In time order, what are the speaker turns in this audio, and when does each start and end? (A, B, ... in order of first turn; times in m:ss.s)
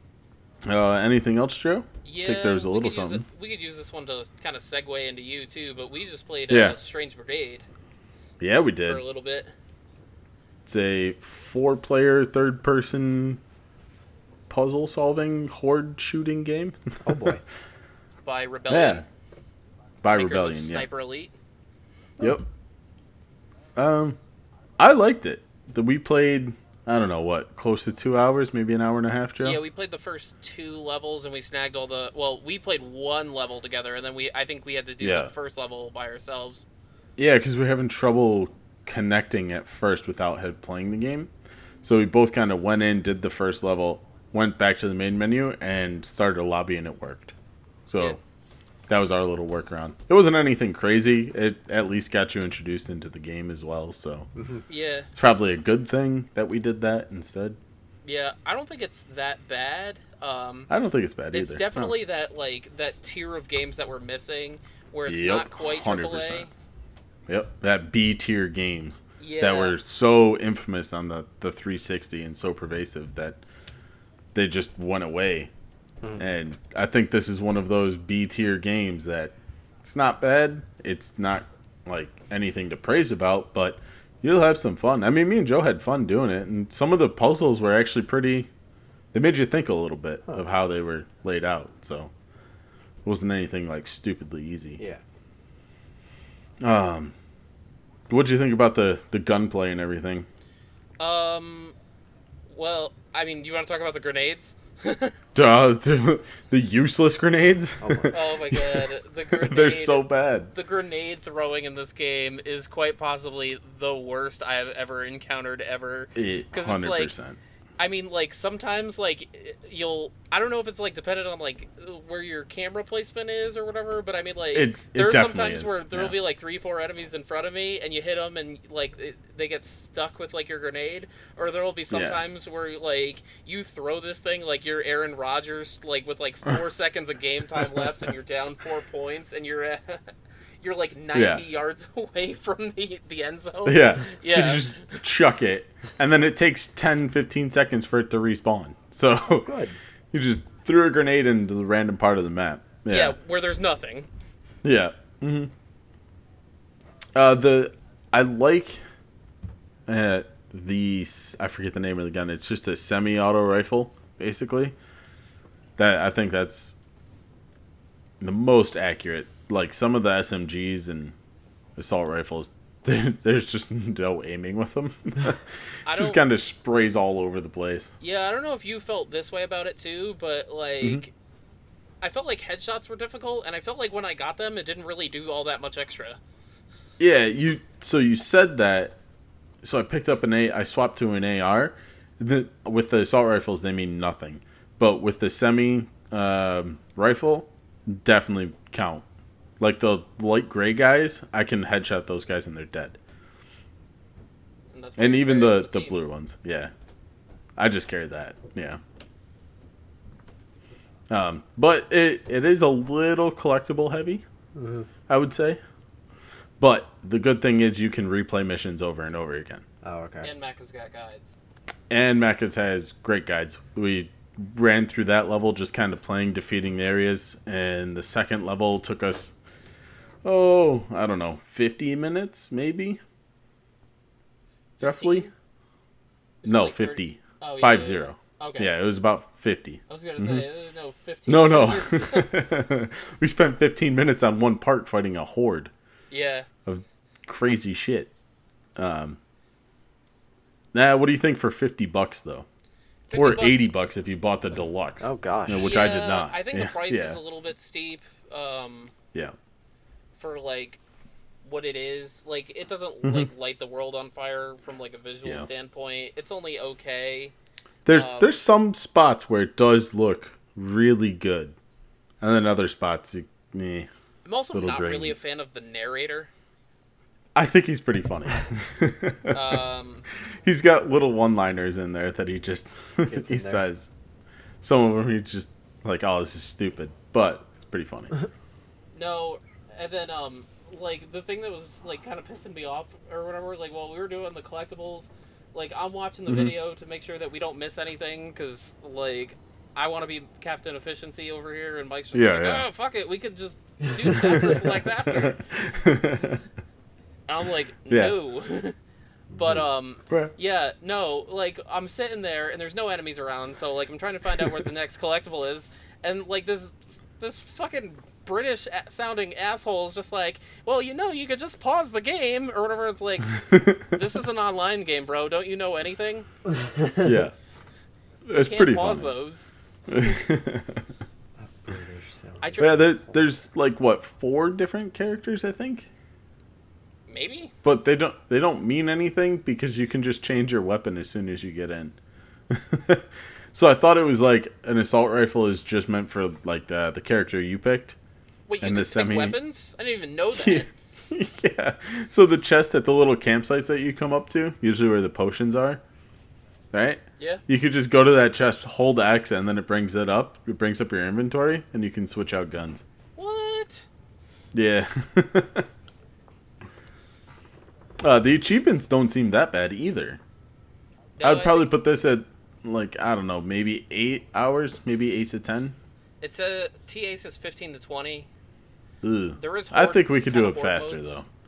0:00.6-0:03.2 A
0:02.0-0:07.6 B
0:06.5-0:06.8 A
0:08.4-0:09.0 A
0:08.8-0:09.5 B
0:10.6-0:13.4 A
0:14.5-0:16.8 A
0:17.0-0:17.4 C
0:18.2-0:19.0 B
0:18.7-0:19.0 A
0:20.0-0:20.9 A
0:20.1-0:21.3 B
0:22.2-0:22.4 A
0:23.8-0:24.2 A
0:24.8-0:29.6 A
0:29.4-0:36.7 B
0:35.0-0:35.3 A
0:37.2-0:41.3 A
0:41.8-0:47.3 A
0:47.9-0:48.2 A
0:48.9-0:54.3 A
0:54.4-0:54.6 C
0:54.7-0:55.1 B
0:55.2-0:57.6 A
0:58.0-1:00.7 B
1:00.7-1:02.0 A
1:01.3-1:06.5 B
1:05.1-1:06.5 A
1:07.3-1:13.4 A
1:09.2-1:09.8 B
1:14.3-1:15.5 A
1:16.2-1:28.5 A
1:29.1-1:32.1 A
1:33.0-1:34.8 A
1:36.6-1:37.1 A
1:38.1-1:40.3 A
1:41.0-1:41.8 B
1:42.5-1:45.2 B
1:45.4-1:50.5 A
1:47.8-1:48.2 C
1:48.1-1:57.1 B
1:56.2-1:57.4 A
1:57.8-2:20.1 B
2:04.5-2:06.2 A
2:11.9-2:12.2 A
2:20.6-2:25.0 B
2:21.1-2:21.4 A
2:23.6-2:29.6 A
2:29.4-2:29.8 C
2:30.1-2:33.2 A
2:32.9-2:34.1 B
2:34.6-2:35.5 A
2:37.2-2:38.8 A
2:39.9-2:44.8 A
2:45.8-2:46.8 A
2:48.2-2:51.2 A
2:51.8-2:57.9 A
2:55.9-2:56.2 B
2:58.0-3:01.1 B
3:02.0-3:06.2 B
3:07.0-3:09.0 A
3:09.6-3:19.0 A
3:19.6-3:23.0 A
3:24.7-3:26.0 B
3:25.0-3:26.7 A
3:27.6-3:28.8 A
3:31.1-3:34.2 A
3:34.6-3:34.9 C
3:35.1-3:35.6 A
3:36.6-3:39.6 A
3:39.8-3:40.3 C
3:40.2-3:41.4 B
3:41.9-3:49.3 A
3:50.2-3:53.0 A
3:54.8-3:55.3 B
3:54.8-3:55.3 A
3:56.4-3:58.7 B
3:56.4-4:00.5 A
3:59.9-4:02.4 B
4:01.3-4:05.7 A
4:06.1-4:06.5 B
4:06.7-4:08.1 A
4:08.8-4:09.2 A
4:10.7-4:12.5 A
4:13.1-4:13.7 B
4:13.1-4:17.2 A
4:15.0-4:15.7 C
4:15.5-4:18.9 B
4:20.2-4:20.8 B
4:21.4-4:27.3 B
4:27.8-4:31.6 A
4:27.9-4:28.4 B
4:32.2-4:33.9 A
4:34.2-4:36.3 B
4:34.5-4:35.2 A
4:37.4-4:39.6 A
4:39.3-4:40.0 B
4:40.4-4:43.9 A
4:43.1-4:43.6 C
4:44.6-4:48.2 A
4:48.9-5:05.4 B
4:56.3-4:56.6 A
5:02.1-5:02.7 A
5:05.1-5:06.4 A
5:07.3-5:08.8 B
5:07.9-5:08.2 A
5:09.4-5:26.3 B
5:23.5-5:23.8 A
5:27.0-5:27.3 A
5:28.3-5:29.1 A
5:28.4-5:29.5 B
5:29.9-5:30.8 A
5:31.4-5:33.1 C
5:32.4-5:32.9 B
5:32.6-5:35.9 A
5:37.1-5:37.5 B
5:37.6-5:42.0 A
5:42.5-5:48.0 A
5:48.5-5:50.7 B
5:48.6-5:49.4 A
5:50.3-5:55.8 A
5:56.7-6:02.8 A
6:03.2-6:03.8 B
6:04.5-6:05.7 A
6:08.0-6:10.2 A
6:11.2-6:11.7 B
6:11.2-6:15.8 A
6:16.2-6:18.3 B
6:19.0-6:21.3 A
6:19.4-6:21.2 B